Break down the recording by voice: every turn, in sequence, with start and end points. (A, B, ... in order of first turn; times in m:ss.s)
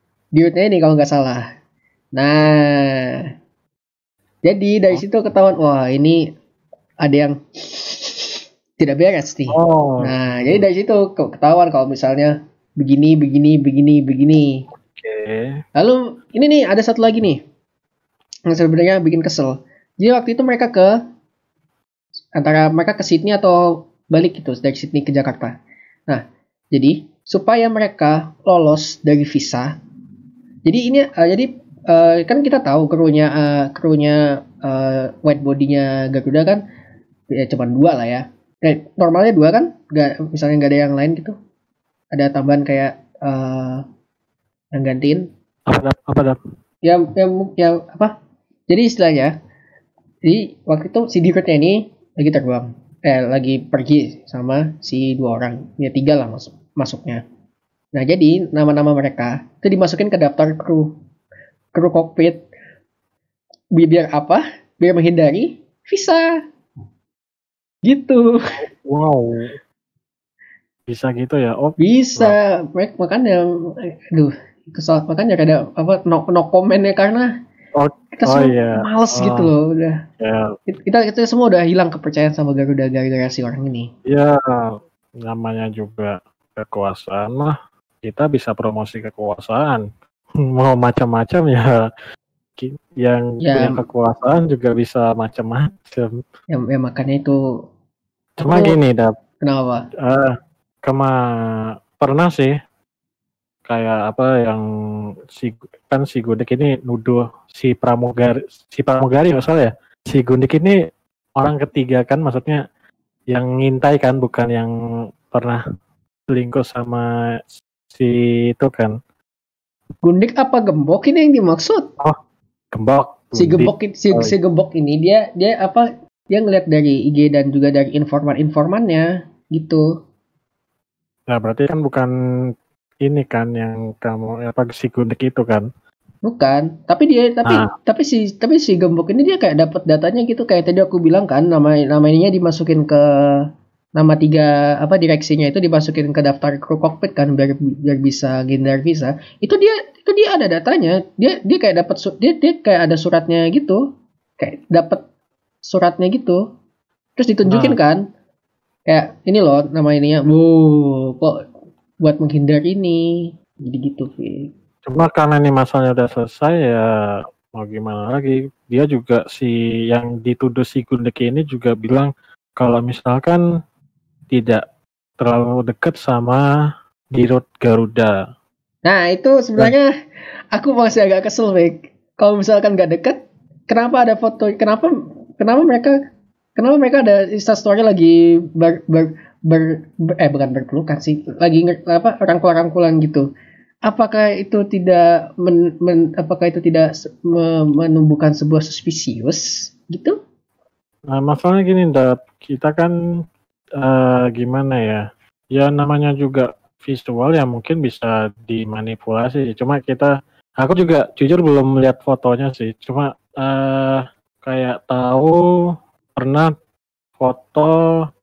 0:00.4-0:01.4 A
0:02.2-0:03.2 A
0:04.5-0:06.3 A
0:07.0-0:14.6 A
0:09.5-0:10.7 B
0:14.9-0:15.6 B
0:15.8-0:17.4 A
0:18.5-0:21.0 A
0:22.4-0:25.5 A
0:26.1-0:29.8 A
0:30.7-0:36.6 A
0:37.3-0:41.4 A
0:42.1-0:43.8 A
0:44.8-0:45.3 A
0:45.7-0:46.4 B
0:46.8-0:48.1 A
0:48.7-0:49.3 A
0:50.3-0:57.2 A
0:58.0-1:00.9 A
1:01.8-1:02.4 A
1:03.8-1:06.3 A
1:07.9-1:08.3 A
1:08.6-1:09.6 B
1:10.9-1:12.4 B
1:11.8-1:17.3 A
1:17.8-1:19.5 B
1:18.2-1:20.0 A
1:20.2-1:20.5 B
1:20.7-1:23.9 A
1:24.1-1:27.5 B
1:28.0-1:29.8 B
1:30.5-1:31.7 B
1:32.6-1:36.1 B
1:33.4-1:33.8 A
1:36.5-1:37.4 A
1:38.4-1:39.1 B
1:38.5-1:38.8 A
1:39.5-1:39.8 A
1:40.0-1:41.2 B
1:42.0-1:42.5 B
1:43.7-1:44.6 B
1:45.3-1:50.8 B
1:51.4-1:52.6 B
1:53.3-1:54.7 B
1:55.3-1:55.6 B
1:56.3-1:57.1 B
1:57.9-1:59.0 B
2:00.0-2:01.9 A
2:02.7-2:04.4 B
2:03.4-2:09.9 A
2:11.3-2:12.1 B
2:13.0-2:15.7 B
2:16.3-2:23.5 A
2:24.0-2:33.8 A
2:34.4-2:35.0 A
2:35.7-2:36.4 A
2:37.2-2:38.0 A
2:37.5-2:37.8 B
2:38.9-2:41.4 A
2:42.0-2:44.5 A
2:44.9-2:46.8 B
2:47.6-2:53.4 B
2:54.3-2:54.6 B
2:55.2-2:56.4 B
2:57.1-2:58.1 B
2:58.9-2:59.9 A
3:00.6-3:06.0 A
3:06.6-3:13.3 A
3:13.9-3:20.2 A
3:21.1-3:22.9 B
3:23.8-3:25.0 B
3:25.5-3:30.1 B
3:30.6-3:35.3 B
3:36.2-3:36.5 B
3:37.2-3:37.7 B